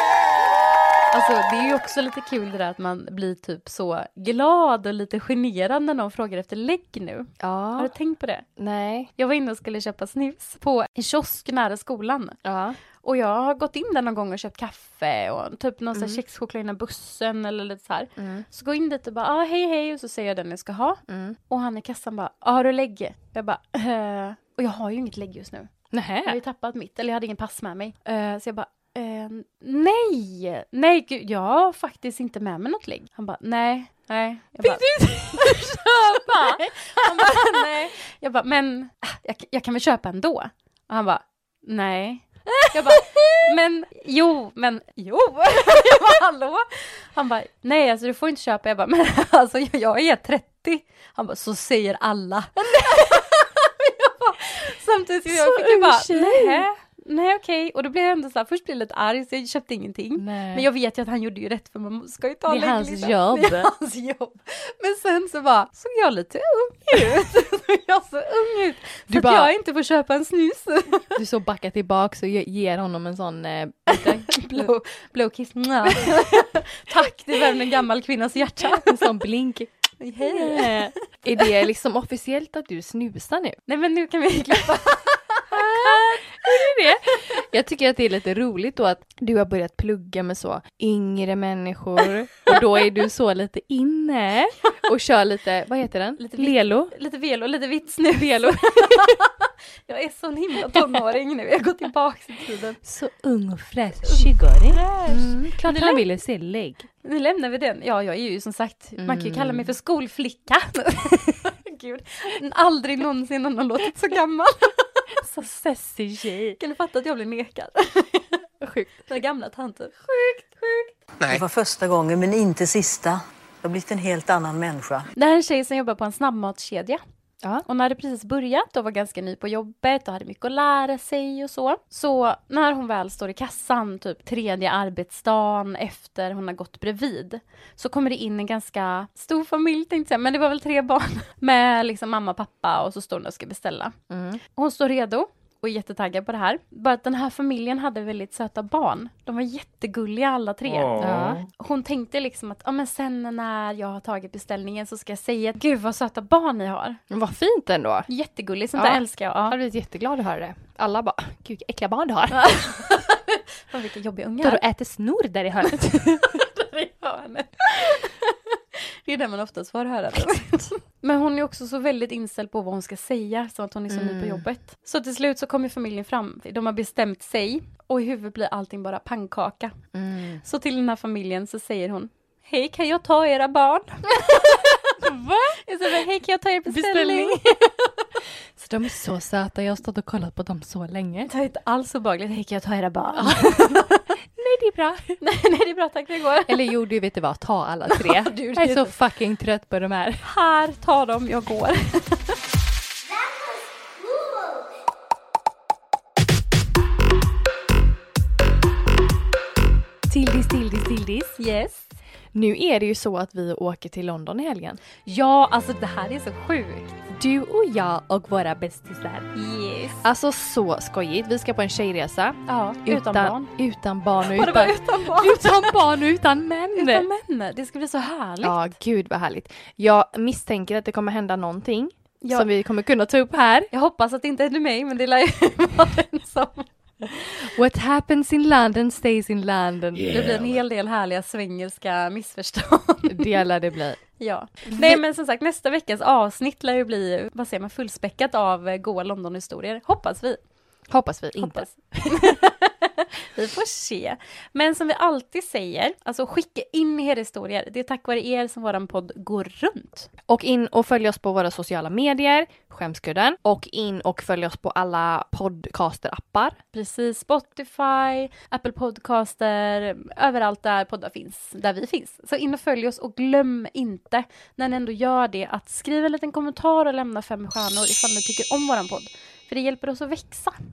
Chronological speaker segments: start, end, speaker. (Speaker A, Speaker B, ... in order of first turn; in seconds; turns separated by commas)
Speaker A: 1.1-8.4, Speaker B: 7.4-7.9, Speaker B: 8.6-9.1, Speaker A: 9.2-12.4, Speaker B: 12.4-12.8, Speaker A: 13.0-25.7, Speaker B: 15.9-16.2, Speaker B: 18.2-18.4, Speaker B: 21.1-21.4, Speaker B: 25.9-26.4, Speaker A: 26.2-71.1, Speaker B: 34.6-37.6, Speaker B: 42.6-43.3, Speaker B: 55.2-56.6, Speaker B: 60.2-60.7, Speaker B: 62.5-63.7, Speaker B: 69.1-69.5, Speaker B: 71.2-74.7, Speaker A: 73.9-78.9, Speaker B: 78.7-83.6, Speaker A: 80.0-81.5, Speaker A: 83.7-86.7, Speaker B: 85.5-96.9, Speaker A: 96.2-102.8, Speaker B: 98.2-99.1, Speaker B: 102.8-106.8, Speaker A: 104.0-106.0, Speaker A: 107.0-115.0, Speaker B: 109.0-109.7, Speaker B: 115.2-116.6, Speaker A: 116.6-118.4, Speaker B: 118.6-119.0, Speaker A: 119.1-120.9, Speaker C: 121.3-125.1, Speaker A: 125.1-127.0, Speaker A: 127.7-143.9, Speaker B: 144.1-144.4, Speaker A: 144.5-157.0, Speaker B: 151.0-151.4, Speaker B: 157.1-158.1, Speaker A: 158.1-159.6, Speaker B: 158.7-162.8, Speaker A: 162.3-164.6, Speaker B: 164.4-166.4, Speaker A: 165.7-179.7, Speaker B: 173.9-174.4, Speaker B: 179.9-180.4, Speaker A: 180.4-185.0, Speaker B: 185.0-185.6, Speaker A: 185.5-188.0, Speaker B: 186.7-187.4, Speaker B: 188.6-191.3, Speaker A: 191.3-194.0, Speaker B: 193.2-193.8, Speaker B: 194.4-195.1, Speaker A: 195.2-196.6, Speaker B: 196.5-200.2, Speaker A: 197.9-198.9, Speaker A: 200.2-202.2, Speaker A: 204.2-204.5, Speaker B: 210.1-211.4, Speaker A: 211.4-211.9, Speaker B: 212.3-214.8, Speaker A: 215.0-216.9, Speaker B: 217.1-219.3, Speaker A: 219.3-220.1, Speaker B: 220.0-227.1, Speaker A: 222.5-223.5, Speaker A: 224.3-225.8, Speaker A: 226.8-228.6, Speaker B: 228.4-233.7, Speaker A: 232.2-232.5, Speaker A: 233.7-236.7, Speaker B: 237.2-240.5, Speaker A: 240.0-243.4, Speaker B: 243.1-244.0, Speaker A: 244.2-250.4, Speaker B: 244.6-245.0, Speaker B: 250.9-252.3, Speaker A: 251.4-260.1, Speaker B: 260.3-266.6, Speaker A: 266.7-280.6